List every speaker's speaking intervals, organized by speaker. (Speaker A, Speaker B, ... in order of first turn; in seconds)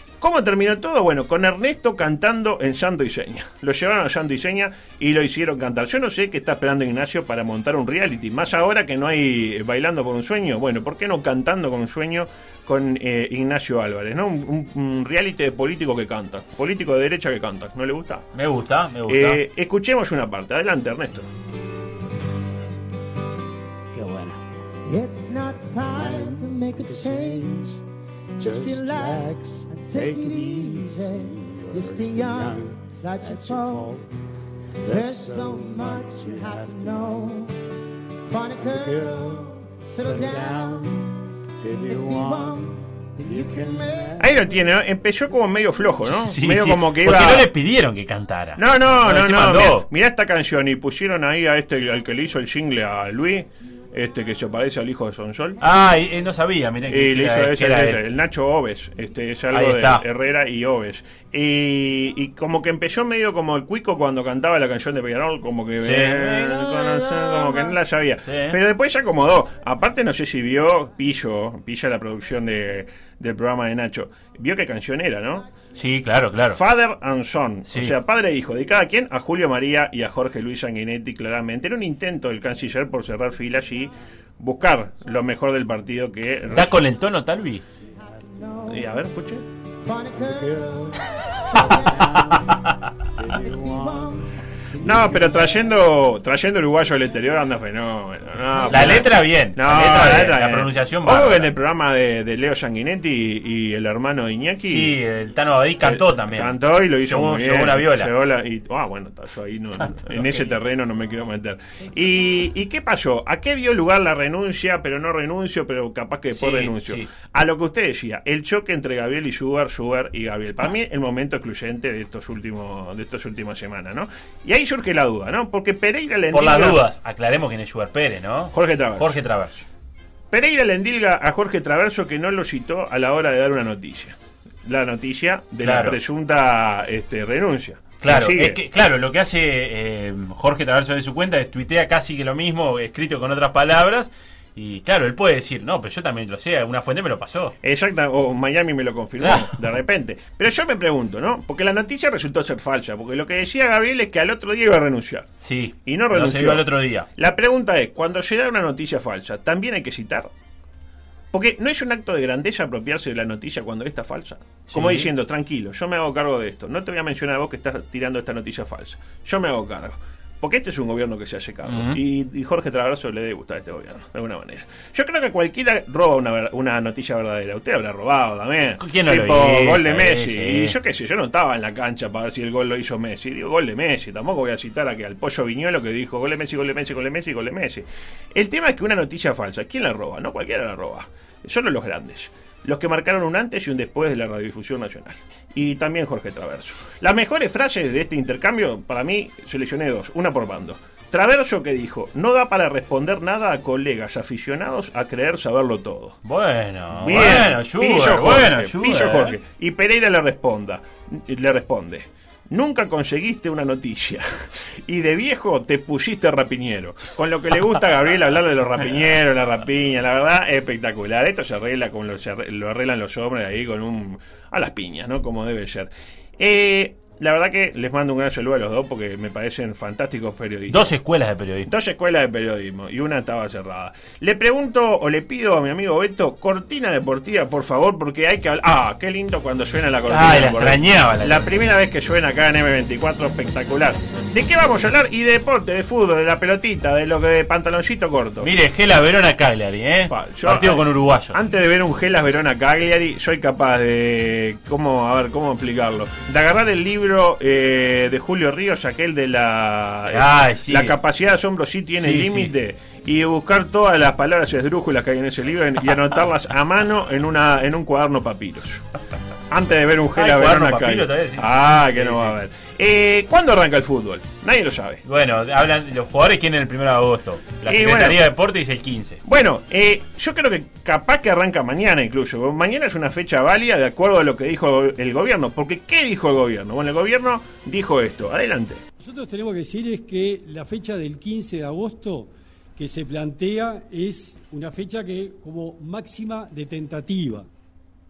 Speaker A: 0.2-18.3, 19.1-21.3, 44.2-47.5, 48.6-55.6, 56.9-75.5, 76.5-86.8, 88.7-89.5, 94.8-105.0, 105.8-126.8, 128.5-129.2, 130.3-138.6, 147.6-155.3, 155.8-160.3, 161.3-206.2, 206.9-230.9, 231.7-248.5, 250.1-268.8, 269.5-275.0, 277.7-278.2, 279.2-288.8
Speaker B: 18.3-19.4, 46.1-49.9, 55.6-58.0, 59.5-60.0, 65.8-68.6, 75.8-76.6, 77.7-77.9, 86.5-87.6, 98.7-101.5, 104.6-108.1, 110.0-110.5, 116.3-117.1, 126.3-129.7, 135.6-136.0, 138.0-147.5, 149.2-149.6, 155.4-157.1, 164.7-165.1, 171.7-172.0, 178.8-180.8, 206.2-209.4, 230.7-231.7, 240.1-241.5, 248.4-251.4, 260.1-260.9, 261.9-262.5, 270.2-272.3, 275.1-279.2
Speaker C: 24.0-27.8, 28.4-34.0, 34.8-37.5, 38.3-41.2, 41.7-44.2, 88.1-88.8, 89.8-92.4, 93.3-94.3
Speaker D: 289.0-297.5